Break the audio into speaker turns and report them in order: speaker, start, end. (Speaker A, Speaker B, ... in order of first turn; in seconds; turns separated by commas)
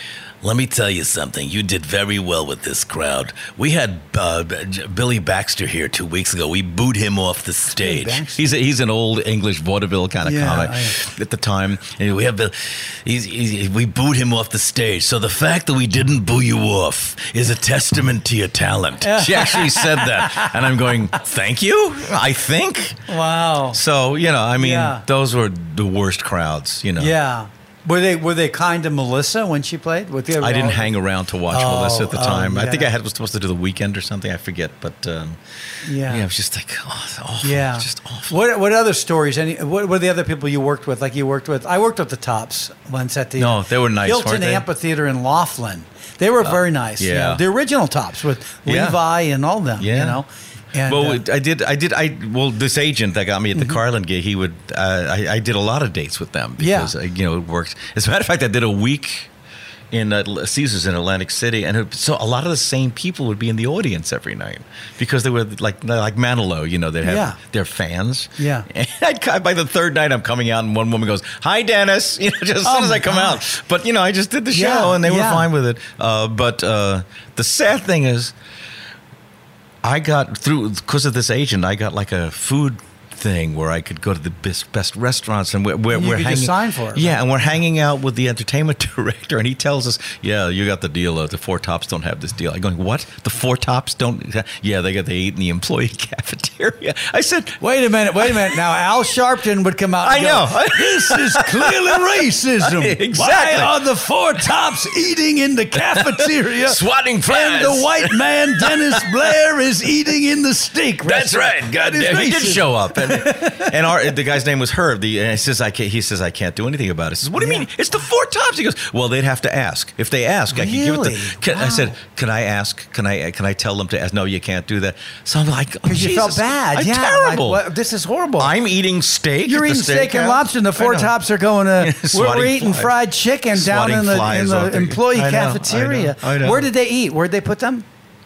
Speaker A: 0.4-23.0, Speaker B: 7.7-8.4, Speaker B: 10.2-11.0, Speaker B: 19.0-20.5, Speaker B: 23.1-23.8, Speaker A: 23.7-27.1, Speaker B: 24.6-25.0, Speaker B: 27.0-30.9, Speaker A: 30.4-38.4, Speaker B: 31.5-32.9, Speaker B: 35.8-36.2, Speaker B: 37.4-51.2, Speaker A: 43.4-44.6, Speaker A: 46.4-47.4, Speaker A: 48.6-49.0, Speaker A: 49.8-50.2, Speaker A: 50.9-59.3, Speaker B: 56.6-56.9, Speaker A: 59.9-78.3, Speaker B: 67.0-67.4, Speaker B: 68.4-68.7, Speaker B: 72.6-73.4, Speaker B: 74.5-75.5, Speaker A: 79.8-97.6, Speaker B: 85.9-87.2, Speaker B: 97.6-113.7, Speaker A: 98.2-98.6, Speaker A: 100.0-103.8, Speaker A: 105.8-109.1, Speaker A: 111.0-127.6, Speaker B: 117.3-117.7, Speaker B: 120.5-121.9, Speaker B: 125.8-128.5, Speaker A: 128.4-131.1, Speaker B: 129.4-137.8, Speaker A: 131.8-132.9, Speaker A: 133.5-136.7